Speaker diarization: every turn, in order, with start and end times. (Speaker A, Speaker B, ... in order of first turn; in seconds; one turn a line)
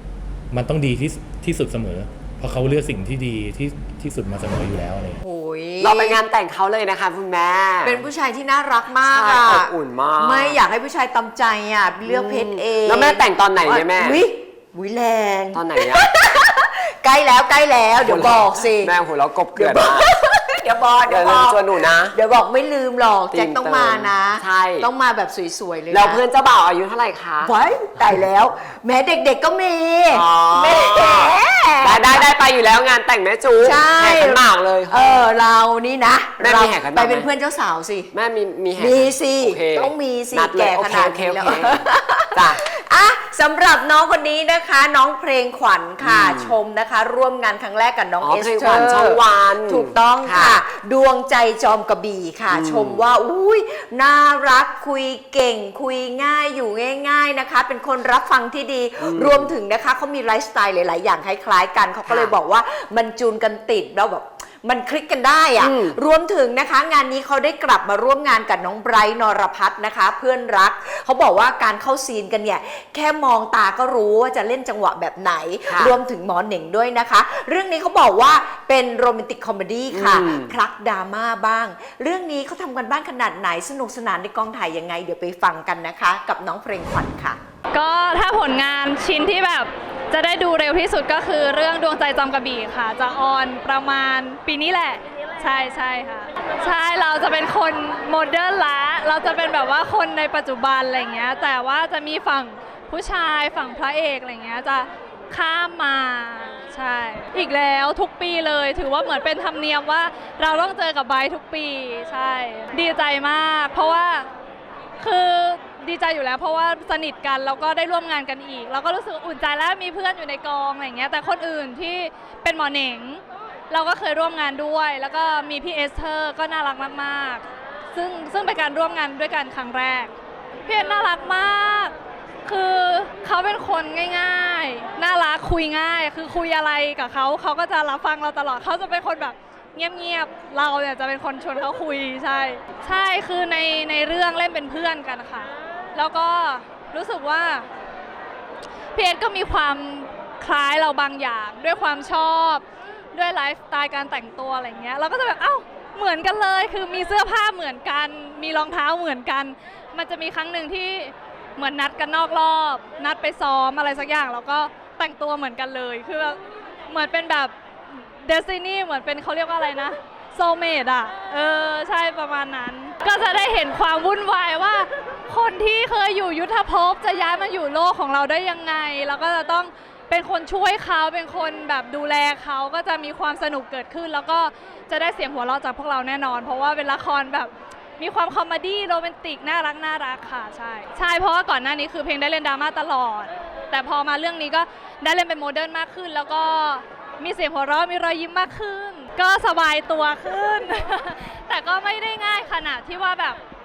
Speaker A: 0.5-5.2
Speaker B: 5.2-6.2
Speaker C: 5.8-8.0
Speaker B: 7.8-18.9
Speaker C: 9.0-10.6
Speaker C: 12.0-14.2
Speaker C: 15.5-16.1
Speaker C: 18.0-20.1
Speaker B: 19.6-26.2
Speaker C: 21.1-22.1
Speaker C: 23.3-24.9
Speaker C: 25.9-27.5
Speaker B: 27.4-32.3
Speaker C: 30.1-35.2
Speaker B: 33.6-38.1
Speaker C: 36.4-37.3
Speaker C: 38.1-42.6
Speaker B: 38.8-87.4
Speaker C: 46.0-46.5
Speaker C: 48.2-50.6
Speaker C: 52.5-53.0
Speaker C: 59.0-59.5
Speaker C: 62.0-62.3
Speaker C: 65.6-66.0
Speaker C: 75.7-76.0
Speaker C: 79.9-80.5
Speaker D: 87.7-114.3
Speaker D: 115.0-130.1
Speaker D: 130.7-147.7
Speaker D: 148.9-203.4